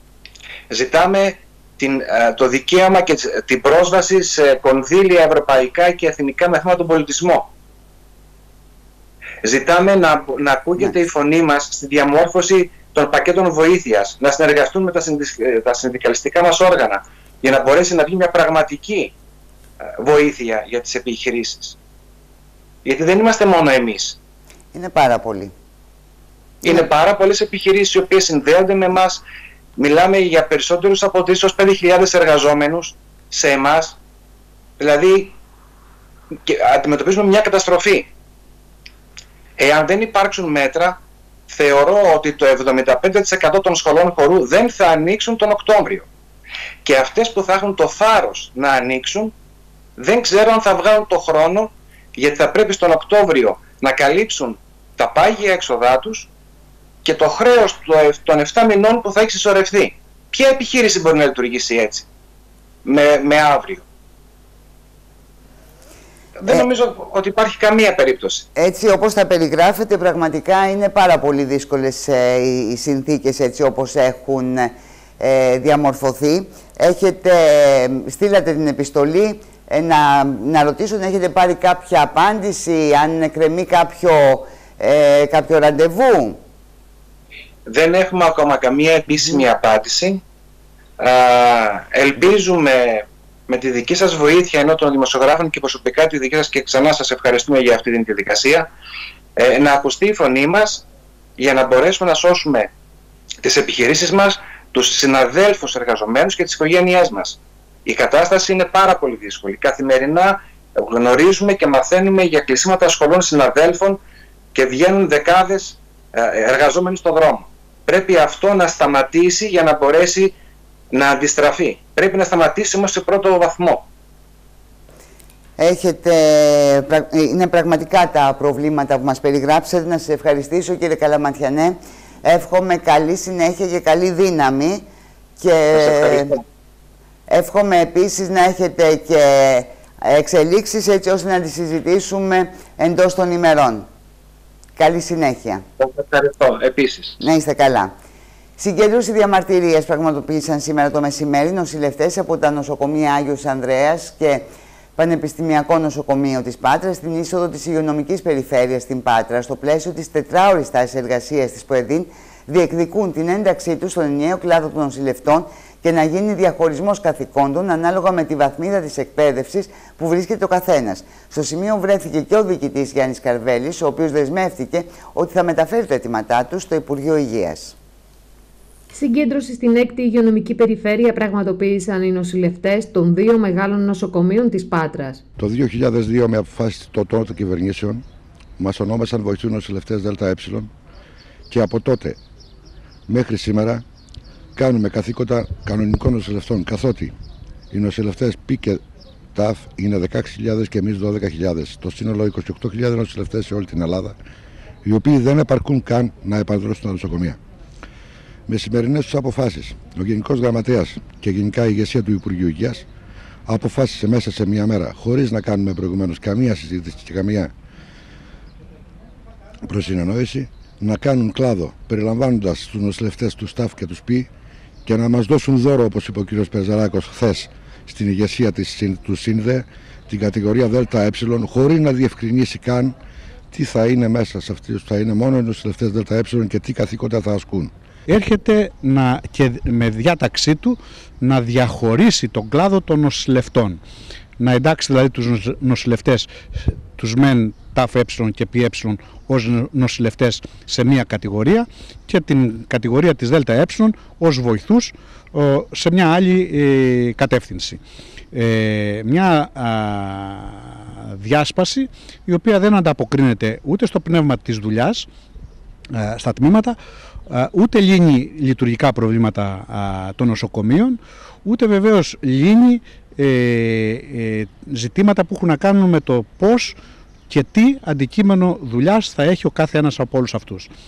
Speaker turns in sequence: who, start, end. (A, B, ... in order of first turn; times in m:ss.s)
0:00.7-0:07.5 A
0:09.4-0:19.1 A
0:20.0-0:21.8 A
0:22.8-0:24.2 A
0:24.7-0:25.5 B
0:26.6-0:29.2 A
0:29.8-0:34.0 A
0:34.8-0:35.4 A
0:36.5-0:38.1 A
0:39.6-0:46.1 A
0:46.8-0:49.3 A
0:50.0-0:56.3 A
0:57.0-1:02.1 A
1:02.8-1:03.8 A
1:06.4-1:08.4 A
1:08.6-1:26.4 B
1:27.7-1:30.2 A
1:31.0-1:38.7 A
1:39.4-1:40.8 A
1:41.4-1:42.7 A
1:43.4-1:54.0 A
1:54.5-2:00.4 A
2:00.9-2:03.9 A
2:05.6-2:14.8 B
2:15.4-2:16.4 B
2:15.9-2:16.4 A
2:17.3-2:23.9 B
2:24.8-2:25.6 B
2:25.8-2:27.2 A
2:27.2-2:27.9 B
2:28.6-2:57.8 B
2:58.9-3:05.2 C
3:05.4-3:08.0 D
3:08.6-3:10.7 D
3:11.5-3:12.2 D
3:13.1-3:13.8 D
3:14.6-3:17.2 D
3:17.7-3:18.8 D
3:19.4-3:24.2 D
3:24.8-3:27.4 D
3:28.5-3:32.9 D
3:33.5-3:37.5 D
3:39.6-3:44.3 D
3:44.8-3:53.0 D
3:53.5-3:57.7 D
3:58.1-4:03.8 E
4:04.4-4:06.3 E
4:07.0-4:17.8 E
4:18.3-4:25.1 E
4:25.9-4:36.8 E
4:37.3-4:40.7 E